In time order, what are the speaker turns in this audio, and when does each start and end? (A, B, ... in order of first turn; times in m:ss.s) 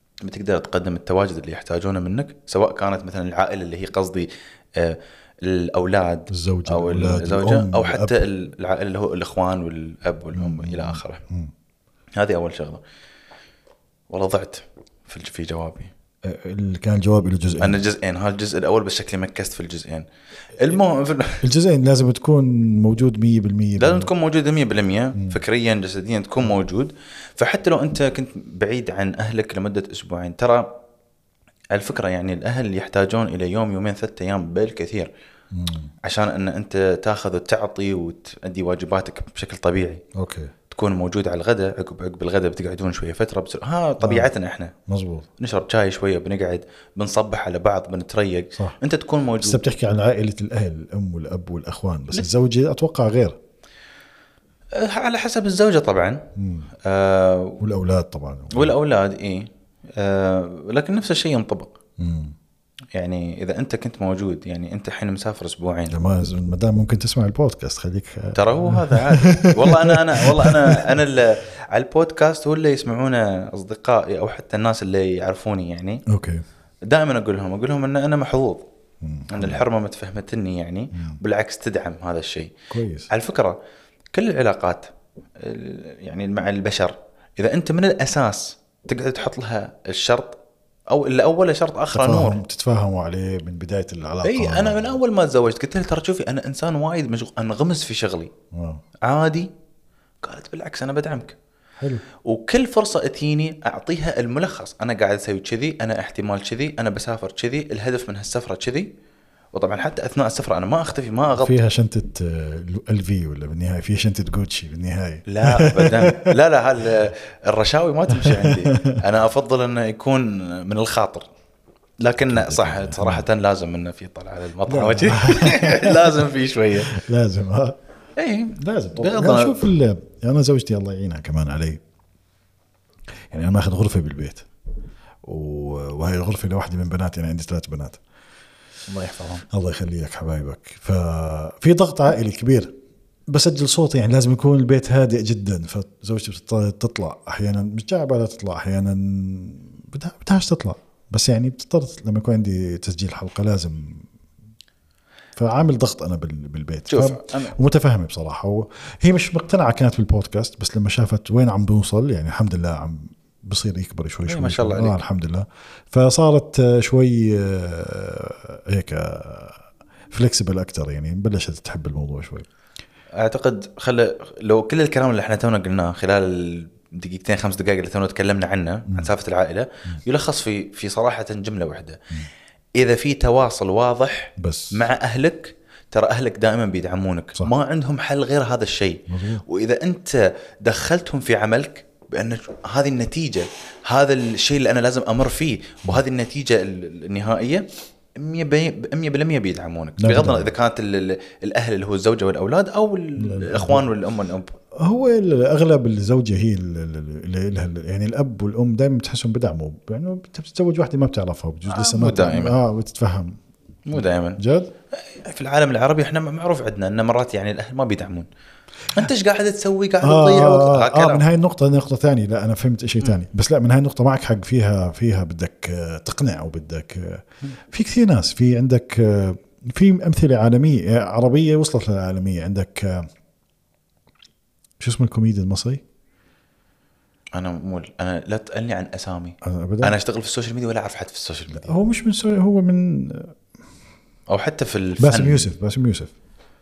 0:00.2-0:11.2 A
0:06.3-0:08.2 B
0:10.3-0:11.5 B
0:12.2-0:12.8 A
0:14.1-0:15.9 A
0:16.2-0:17.8 B
0:17.6-0:21.5 A
0:21.4-0:24.1 B
0:23.8-0:30.8 A
0:31.7-0:35.1 A
0:35.5-0:35.9 B
0:36.0-0:40.0 A
0:40.1-0:40.5 B
0:40.7-0:44.7 A
0:44.0-0:44.3 B
0:44.9-0:45.3 B
0:45.4-0:49.6 A
0:49.4-0:53.4 B
0:54.7-0:56.3 A
0:56.4-0:56.7 B
0:56.8-0:57.6 A
0:57.6-0:58.7 B
0:58.5-1:01.7 A
1:02.0-1:02.3 B
1:02.9-1:06.0 A
1:05.9-1:11.0 B
1:08.3-1:16.0 A
1:16.1-1:16.4 B
1:16.8-1:18.6 A
1:19.0-1:19.6 B
1:19.3-1:22.5 A
1:20.9-1:21.2 B
1:22.7-1:23.1 B
1:23.1-1:23.6 A
1:24.1-1:30.4 A
1:30.9-1:32.4 A
1:31.9-1:35.0 B
1:34.2-1:38.3 A
1:38.5-1:38.8 B
1:39.0-1:39.5 A
1:40.2-1:41.4 A
1:41.8-1:42.0 B
1:42.2-1:48.9 A
1:49.5-1:51.6 A
1:51.4-1:56.3 B
1:55.3-2:01.3 A
1:58.1-1:59.0 B
2:02.0-2:07.0 A
2:02.2-2:03.3 B
2:04.7-2:06.3 B
2:06.8-2:07.8 B
2:08.2-2:09.6 A
2:08.6-2:11.8 B
2:13.3-2:14.4 B
2:15.2-2:18.0 B
2:18.9-2:19.4 A
2:19.4-2:22.7 B
2:23.3-2:34.1 B
2:35.4-2:52.4 B
2:36.9-2:37.5 A
2:44.3-2:45.0 A
2:53.2-3:02.0 A
3:02.8-3:24.5 A
3:04.4-3:04.8 B
3:09.1-3:09.4 B
3:20.0-3:20.5 B
3:23.2-3:23.9 B
3:24.7-3:33.4 B
3:31.7-3:32.6 A
3:33.9-3:34.4 A
3:34.4-3:34.7 B
3:35.1-3:38.3 A
3:38.9-3:41.2 A
3:40.0-3:53.1 B
3:54.8-3:55.8 B
3:57.3-4:01.7 A
3:59.4-3:59.9 B
4:01.6-4:03.4 B
4:04.3-4:05.5 A
4:05.0-4:06.1 B